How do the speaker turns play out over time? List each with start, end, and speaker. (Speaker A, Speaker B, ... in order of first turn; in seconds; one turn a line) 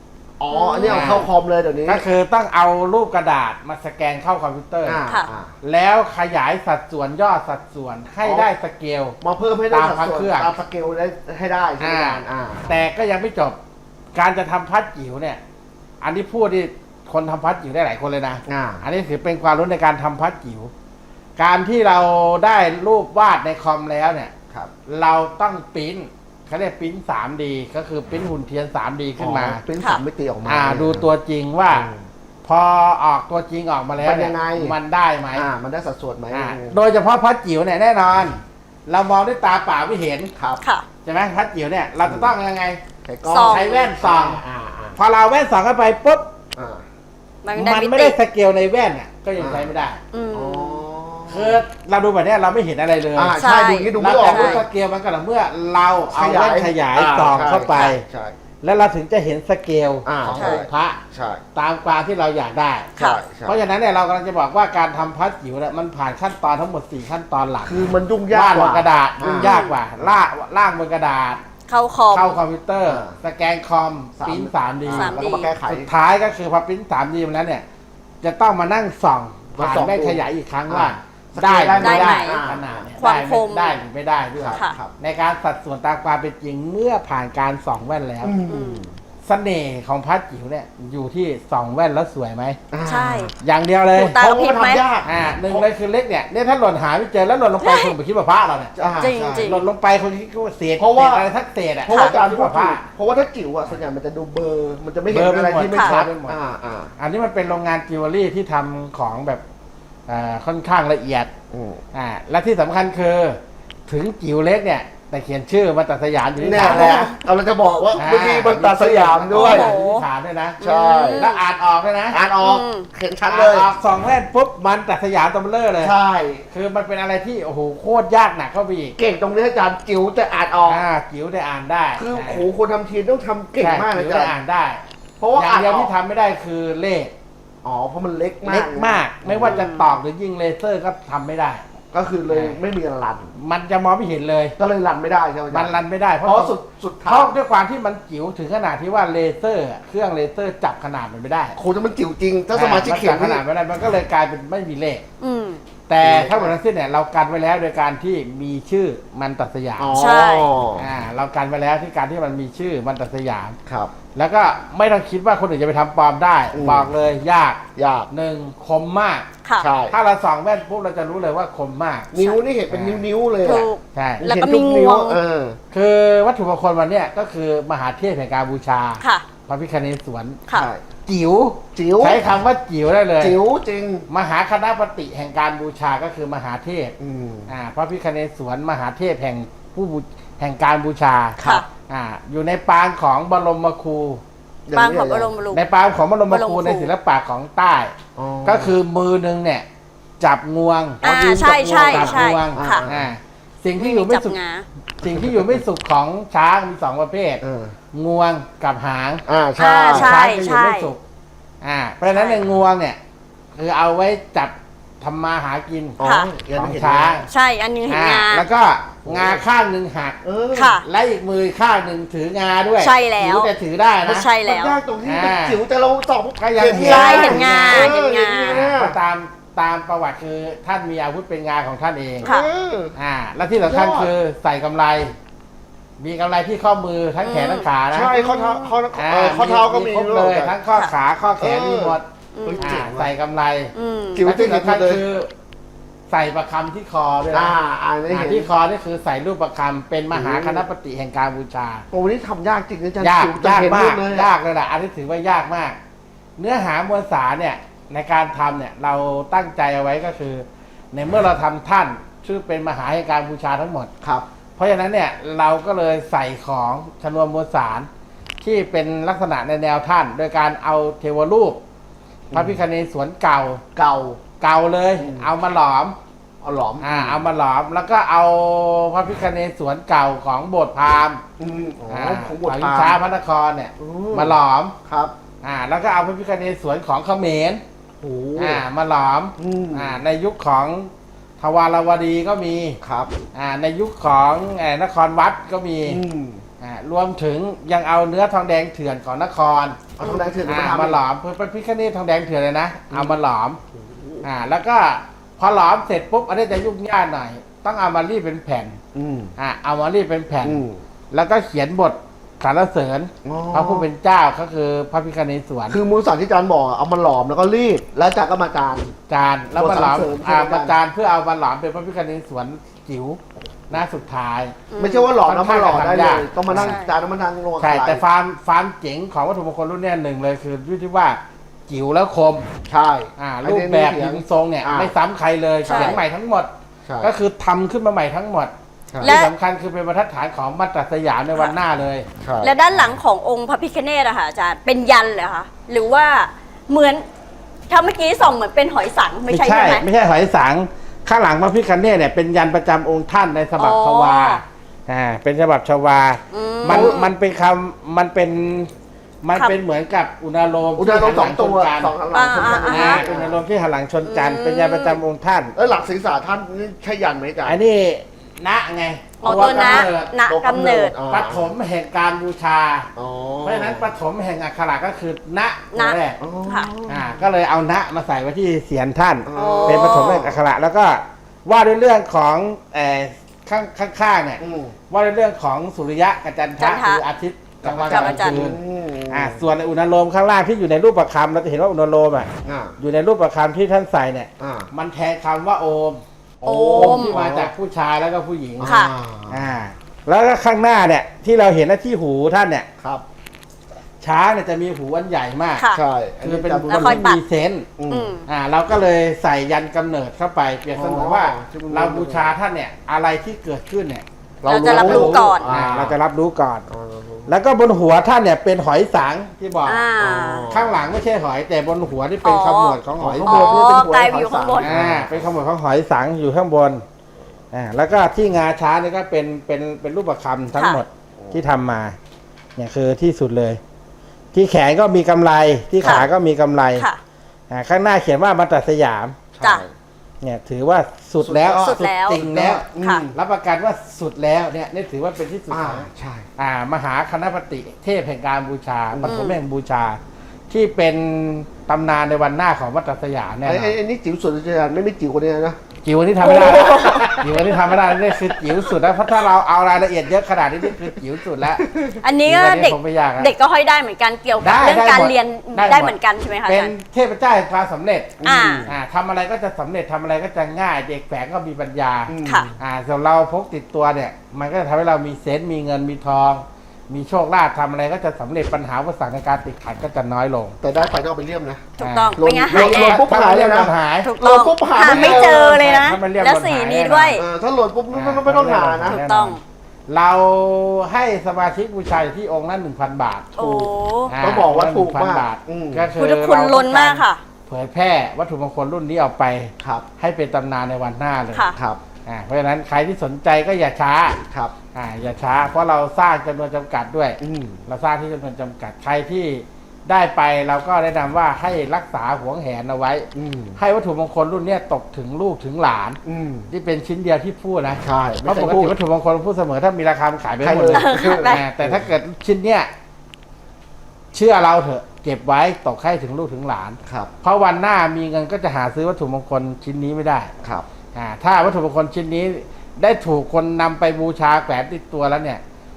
Speaker A: 0.4-2.0
Speaker B: 0.5-1.3
Speaker C: 0.9-1.3
Speaker C: 1.9-5.0
Speaker A: 4.8-5.5
Speaker C: 5.6-9.2
Speaker A: 8.2-8.5
Speaker A: 9.2-12.8
Speaker C: 9.7-10.5
Speaker C: 11.8-13.6
Speaker C: 14.1-15.4
Speaker C: 16.0-20.7
Speaker A: 18.5-18.8
Speaker C: 21.4-24.3
Speaker C: 24.9-29.6
Speaker A: 29.2-31.0
Speaker C: 30.4-31.9
Speaker A: 31.7-32.1
Speaker C: 32.4-35.5
Speaker A: 34.0-34.8
Speaker A: 35.3-36.8
Speaker C: 36.3-40.3
Speaker A: 40.4-40.6
Speaker B: 40.6-40.9
Speaker C: 41.0-42.8
Speaker A: 42.0-42.3
Speaker A: 43.0-45.0
Speaker B: 43.2-43.9
Speaker C: 43.4-44.4
Speaker C: 45.0-46.3
Speaker A: 46.5-46.8
Speaker B: 47.4-48.1
Speaker C: 47.5-50.0
Speaker A: 49.4-49.7
Speaker B: 50.1-50.8
Speaker A: 50.3-51.6
Speaker C: 51.3-53.4
Speaker A: 53.1-54.6
Speaker B: 53.3-54.6
Speaker C: 54.0-58.0
Speaker A: 56.1-58.3
Speaker C: 58.6-61.0
Speaker A: 60.0-61.4
Speaker B: 60.3-60.6
Speaker C: 61.5-71.4
Speaker A: 63.0-63.6
Speaker A: 67.7-70.1
Speaker B: 69.4-69.7
Speaker B: 71.7-72.4
Speaker C: 72.1-77.6
Speaker A: 72.9-73.2
Speaker A: 74.2-75.9
Speaker B: 74.9-75.5
Speaker C: 78.2-88.3
Speaker A: 79.5-82.9
Speaker B: 81.8-82.4
Speaker B: 83.0-83.8
Speaker A: 84.4-84.9
Speaker A: 88.2-89.0
Speaker B: 88.5-88.8
Speaker C: 89.2-92.6
Speaker A: 92.7-93.3
Speaker B: 92.8-93.3
Speaker C: 93.4-94.2
Speaker B: 94.0-94.8
Speaker A: 94.1-95.6
Speaker C: 95.0-98.7
Speaker B: 97.6-97.9
Speaker A: 98.7-99.6
Speaker B: 99.0-99.6
Speaker C: 99.3-102.8
Speaker A: 100.8-101.3
Speaker A: 101.8-106.9
Speaker B: 101.9-102.1
Speaker C: 105.1-106.4
Speaker C: 107.0-109.4
Speaker C: 110.1-111.3
Speaker A: 111.5-111.8
Speaker C: 111.9-117.1
Speaker A: 116.4-119.7
Speaker B: 116.6-117.1
Speaker C: 118.0-120.6
Speaker B: 119.3-120.0
Speaker A: 120.6-121.2
Speaker B: 120.6-121.4
Speaker C: 121.1-122.2
Speaker A: 122.1-123.7
Speaker B: 122.4-122.9
Speaker C: 123.2-126.0
Speaker A: 125.8-126.5
Speaker C: 126.5-128.9
Speaker A: 129.0-130.8
Speaker C: 130.7-132.4
Speaker A: 131.9-134.3
Speaker C: 133.6-134.8
Speaker A: 135.2-135.9
Speaker C: 135.3-137.1
Speaker A: 137.6-139.6
Speaker C: 138.4-141.6
Speaker B: 139.5-139.8
Speaker A: 141.9-143.3
Speaker C: 142.3-142.6
Speaker C: 143.3-144.6
Speaker A: 144.6-147.3
Speaker C: 145.5-146.5
Speaker C: 147.1-151.6
Speaker A: 151.6-153.4
Speaker C: 152.5-155.0
Speaker B: 155.2-155.6
Speaker C: 155.9-160.0
Speaker A: 156.0-156.5
Speaker A: 159.8-160.9
Speaker B: 159.9-160.5
Speaker C: 160.8-163.6
Speaker A: 163.7-163.9
Speaker C: 164.1-169.3
Speaker A: 166.5-166.9
Speaker A: 167.8-168.1
Speaker A: 169.6-169.9
Speaker C: 169.9-172.1
Speaker A: 172.1-173.7
Speaker C: 172.7-173.1
Speaker B: 173.4-175.2
Speaker C: 173.9-174.2
Speaker A: 174.2-175.6
Speaker C: 175.7-180.4
Speaker A: 180.5-180.8
Speaker C: 181.1-183.4
Speaker A: 181.7-182.2
Speaker A: 183.2-184.1
Speaker C: 184.1-186.9
Speaker A: 187.0-187.5
Speaker C: 187.5-194.2
Speaker A: 191.4-191.6
Speaker A: 194.7-195.3
Speaker B: 194.7-195.6
Speaker C: 195.5-197.9
Speaker B: 196.3-196.9
Speaker A: 198.2-198.8
Speaker C: 198.4-199.7
Speaker C: 200.2-201.0
Speaker B: 201.0-202.8
Speaker A: 201.0-203.1
Speaker C: 201.6-204.3
Speaker B: 203.8-204.6
Speaker C: 205.0-209.2
Speaker A: 205.1-205.6
Speaker A: 207.4-207.7
Speaker A: 209.3-210.2
Speaker B: 209.6-210.9
Speaker C: 209.7-211.0
Speaker C: 211.6-213.0
Speaker B: 212.1-212.4
Speaker C: 213.6-216.0
Speaker A: 216.0-217.2
Speaker B: 216.0-216.3
Speaker C: 216.5-217.3
Speaker B: 217.3-218.4
Speaker C: 217.9-220.2
Speaker A: 219.0-219.4
Speaker A: 220.2-220.8
Speaker B: 220.5-220.8
Speaker C: 220.8-224.2
Speaker B: 222.8-223.5
Speaker A: 224.0-228.9
Speaker B: 224.1-224.8
Speaker C: 225.0-225.6
Speaker C: 226.4-232.3
Speaker B: 226.8-228.6
Speaker A: 232.2-232.9
Speaker C: 232.9-235.1
Speaker A: 233.4-234.1
Speaker C: 236.0-238.1
Speaker B: 237.2-238.8
Speaker A: 237.9-240.5
Speaker C: 238.9-242.1
Speaker A: 241.4-243.1
Speaker B: 242.3-242.8
Speaker C: 242.6-245.3
Speaker B: 243.7-244.2
Speaker A: 244.2-245.0
Speaker C: 246.1-247.6
Speaker A: 247.3-248.5
Speaker C: 248.1-251.8
Speaker A: 250.1-250.6
Speaker A: 251.9-254.3
Speaker C: 253.0-255.8
Speaker C: 256.4-263.9
Speaker C: 264.6-267.9
Speaker C: 268.4-271.6
Speaker A: 272.3-272.6
Speaker C: 272.3-273.6
Speaker A: 273.7-274.2
Speaker C: 274.4-276.0
Speaker A: 275.0-275.3
Speaker A: 276.4-277.2
Speaker C: 276.8-281.2
Speaker A: 281.4-283.0
Speaker C: 281.9-284.7
Speaker A: 283.8-284.3
Speaker A: 284.9-285.1
Speaker C: 285.4-287.6
Speaker A: 288.0-288.6
Speaker C: 288.4-292.8
Speaker A: 289.4-290.0
Speaker A: 292.8-293.1
Speaker C: 293.3-296.0
Speaker A: 295.8-296.4
Speaker C: 296.6-299.9
Speaker A: 300.0-301.0
Speaker B: 300.0-300.3
Speaker C: 300.4-303.6
Speaker A: 302.9-303.2
Speaker A: 303.8-304.2
Speaker C: 304.2-308.8
Speaker A: 308.9-309.3
Speaker C: 309.4-315.8
Speaker A: 310.4-310.8
Speaker A: 313.2-313.9
Speaker A: 315.7-318.9
Speaker C: 319.1-324.6
Speaker A: 319.6-320.8
Speaker B: 324.7-325.1
Speaker A: 324.8-328.0
Speaker C: 325.2-326.8
Speaker B: 326.5-326.9
Speaker C: 327.6-332.4
Speaker A: 332.7-334.9
Speaker C: 333.2-336.5
Speaker A: 335.6-336.0
Speaker B: 335.7-336.0
Speaker A: 336.9-337.1
Speaker C: 337.0-342.1
Speaker A: 338.9-339.2
Speaker B: 339.0-339.3
Speaker A: 342.2-342.8
Speaker B: 342.4-347.0
Speaker B: 347.7-349.8
Speaker C: 349.3-358.7
Speaker B: 353.6-354.4
Speaker B: 356.3-357.1
Speaker A: 356.7-357.0
Speaker C: 359.2-361.9
Speaker A: 360.8-363.4
Speaker B: 362.1-363.0
Speaker C: 362.6-365.5
Speaker B: 364.0-365.0
Speaker A: 365.5-367.6
Speaker C: 367.4-370.1
Speaker B: 369.2-370.9
Speaker A: 369.2-371.5
Speaker C: 371.1-372.9
Speaker A: 372.9-373.9
Speaker C: 373.4-376.2
Speaker B: 375.7-376.7
Speaker A: 376.2-377.2
Speaker C: 376.9-388.6
Speaker A: 379.2-380.4
Speaker B: 379.3-380.2
Speaker A: 384.4-384.8
Speaker B: 386.6-387.0
Speaker A: 387.6-389.4
Speaker B: 387.8-388.5
Speaker C: 389.1-398.7
Speaker A: 392.4-392.8
Speaker A: 394.4-394.7
Speaker B: 396.4-397.1
Speaker A: 396.4-397.5
Speaker A: 398.6-399.4
Speaker B: 398.6-398.9
Speaker C: 399.3-402.7
Speaker A: 402.8-403.0
Speaker C: 404.0-405.7
Speaker A: 405.7-407.1
Speaker C: 406.2-407.7
Speaker B: 406.7-407.2
Speaker A: 407.8-408.1
Speaker B: 407.9-408.2
Speaker C: 408.3-414.0
Speaker A: 410.8-412.3
Speaker A: 414.4-415.9
Speaker B: 414.4-415.6
Speaker C: 414.6-416.7
Speaker A: 416.7-417.3
Speaker C: 417.3-419.8
Speaker B: 419.6-420.5
Speaker A: 420.0-420.9
Speaker C: 420.5-423.6
Speaker B: 422.2-424.9
Speaker A: 423.0-425.3
Speaker C: 424.6-426.8
Speaker C: 427.5-432.0
Speaker C: 432.6-433.6
Speaker C: 434.3-436.9
Speaker A: 435.8-436.1
Speaker C: 437.5-439.2
Speaker A: 439.3-439.7
Speaker C: 440.2-450.0
Speaker A: 441.2-443.2
Speaker B: 441.6-442.2
Speaker B: 442.8-443.1
Speaker A: 445.5-446.3
Speaker A: 448.9-449.2
Speaker B: 449.1-449.4
Speaker C: 450.5-453.8
Speaker A: 453.4-455.6
Speaker C: 455.8-461.6
Speaker A: 456.2-458.7
Speaker B: 456.4-456.9
Speaker A: 461.6-462.0
Speaker B: 462.0-466.7
Speaker C: 462.2-463.3
Speaker C: 464.4-465.9
Speaker C: 466.4-480.6
Speaker A: 468.2-468.7
Speaker B: 468.2-468.7
Speaker A: 472.1-472.6
Speaker B: 472.2-472.5
Speaker A: 480.6-481.6
Speaker B: 481.8-483.0
Speaker C: 481.8-484.1
Speaker A: 482.2-485.8
Speaker B: 484.0-487.2
Speaker C: 484.8-487.2
Speaker A: 487.1-489.0
Speaker C: 487.9-493.4
Speaker B: 488.9-489.4
Speaker B: 493.4-494.1
Speaker A: 493.4-495.9
Speaker C: 494.1-501.5
Speaker B: 496.0-497.2
Speaker A: 499.6-499.9
Speaker A: 501.6-501.8
Speaker C: 502.1-504.2
Speaker C: 504.7-522.7
Speaker A: 507.2-507.6
Speaker A: 513.1-513.6
Speaker A: 516.0-516.5
Speaker A: 517.8-518.7
Speaker A: 520.4-521.9
Speaker B: 520.7-521.4
Speaker C: 524.1-530.3
Speaker A: 526.9-527.1
Speaker C: 530.9-535.4